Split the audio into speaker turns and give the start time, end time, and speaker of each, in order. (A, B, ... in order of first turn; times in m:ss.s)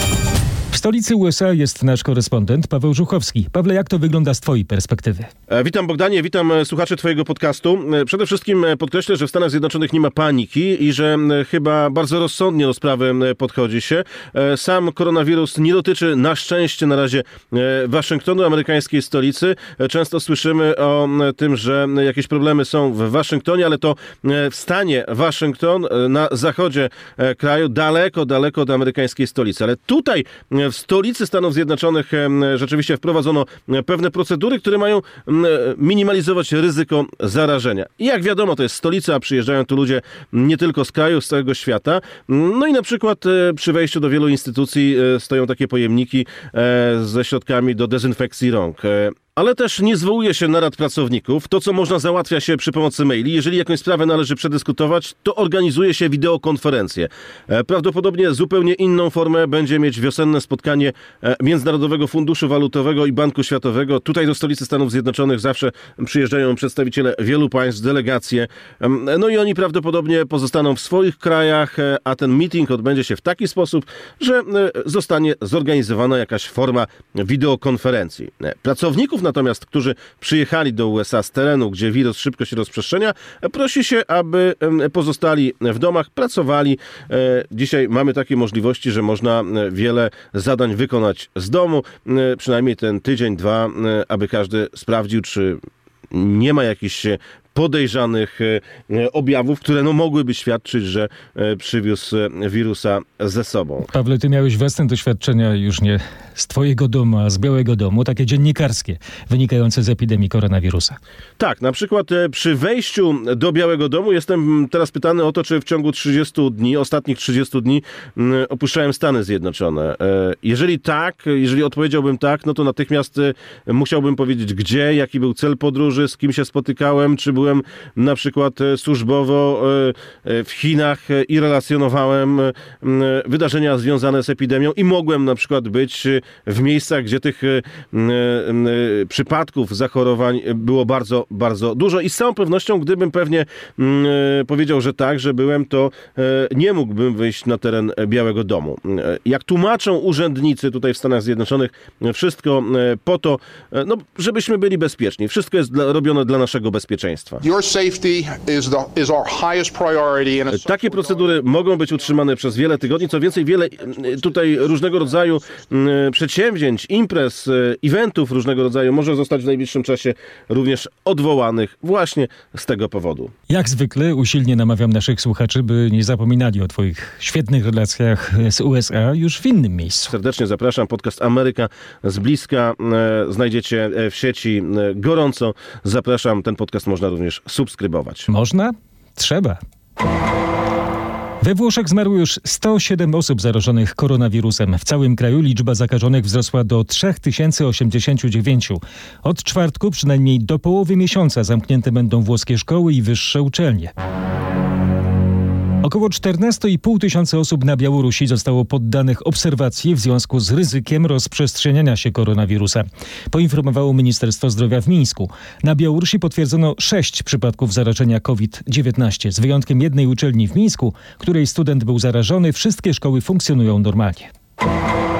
0:00.7-0:05.3 A
0:05.5-1:43.9 B
1:43.9-1:51.0 A
1:51.4-2:37.4 B
2:37.4-2:40.9 C
2:40.5-2:53.3 B
2:53.5-3:00.1 A
3:00.1-3:08.3 B
3:08.3-3:09.6 A
3:11.4-3:23.9 A
3:25.8-3:44.3 A